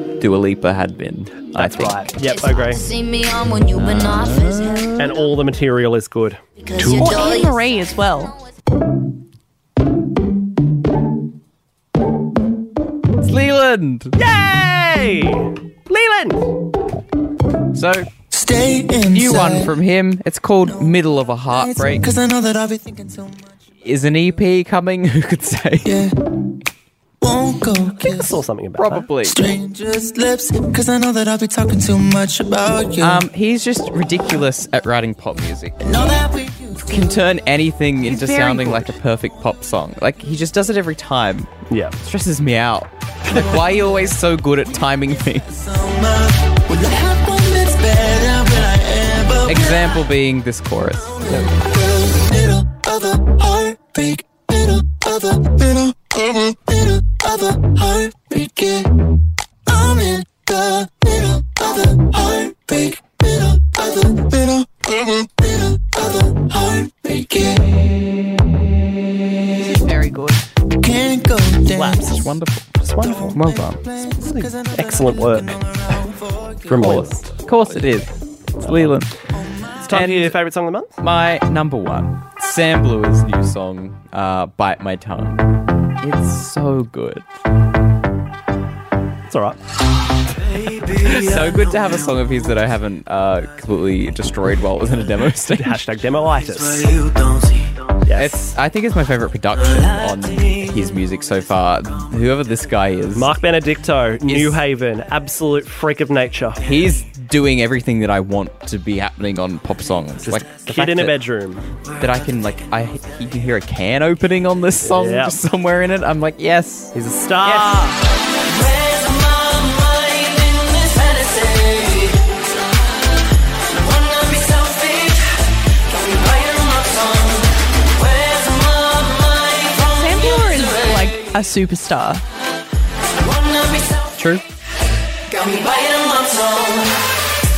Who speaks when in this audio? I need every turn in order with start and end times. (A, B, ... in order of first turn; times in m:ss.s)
0:00.2-0:02.0 A
0:01.6-0:02.8 B
0:02.2-0:05.2 C
0:03.7-0:05.2 A
0:05.0-0:06.4 B
0:06.6-0:08.1 C
0:07.0-0:08.4 D
0:13.2-0:14.2 A
0:14.2-0:16.4 B
0:17.7-0:18.1 A
0:18.3-0:19.7 E
0:19.1-0:22.1 A
0:21.6-0:23.4 E
0:23.8-0:26.0 A
0:25.8-0:26.1 E
0:27.2-0:28.3 E
0:28.0-0:29.1 B
0:28.8-0:29.5 A
0:29.2-0:33.2 E
0:33.0-0:35.9 A
0:35.8-0:36.7 E
0:36.8-0:45.7 A
0:38.1-0:38.9 D
0:41.7-0:42.0 B
0:45.8-0:49.9 E
0:49.4-0:51.2 A
0:51.3-0:59.0 E
0:59.7-1:08.1 E
1:09.6-1:10.5 D
1:10.8-1:12.1 E
1:11.7-1:12.2 B
1:12.0-1:12.8 A
1:12.8-1:13.4 B
1:13.3-1:16.5 E
1:13.3-1:13.8 A
1:14.2-1:15.6 B
1:16.7-1:17.3 B
1:16.7-1:19.1 A
1:18.6-1:19.0 B
1:19.8-1:21.0 B
1:19.9-1:20.4 A
1:21.0-1:25.5 A
1:26.0-1:27.2 A
1:29.3-1:29.6 B
1:30.7-1:35.8 A
1:35.4-1:37.1 B
1:38.1-1:38.5 B
1:38.2-1:43.4 A
1:43.1-1:46.6 B
1:44.3-1:44.6 A
1:46.6-1:51.2 A
1:50.2-1:51.7 B
1:52.0-1:57.0 A
1:54.8-1:55.4 B
1:56.9-1:58.0 B
1:58.6-2:02.2 C
2:03.9-2:05.2 C
2:05.9-2:07.5 C
2:08.0-2:10.0 C
2:09.9-2:12.2 D
2:13.4-2:14.1 C
2:14.2-2:14.4 A
2:15.3-2:16.9 C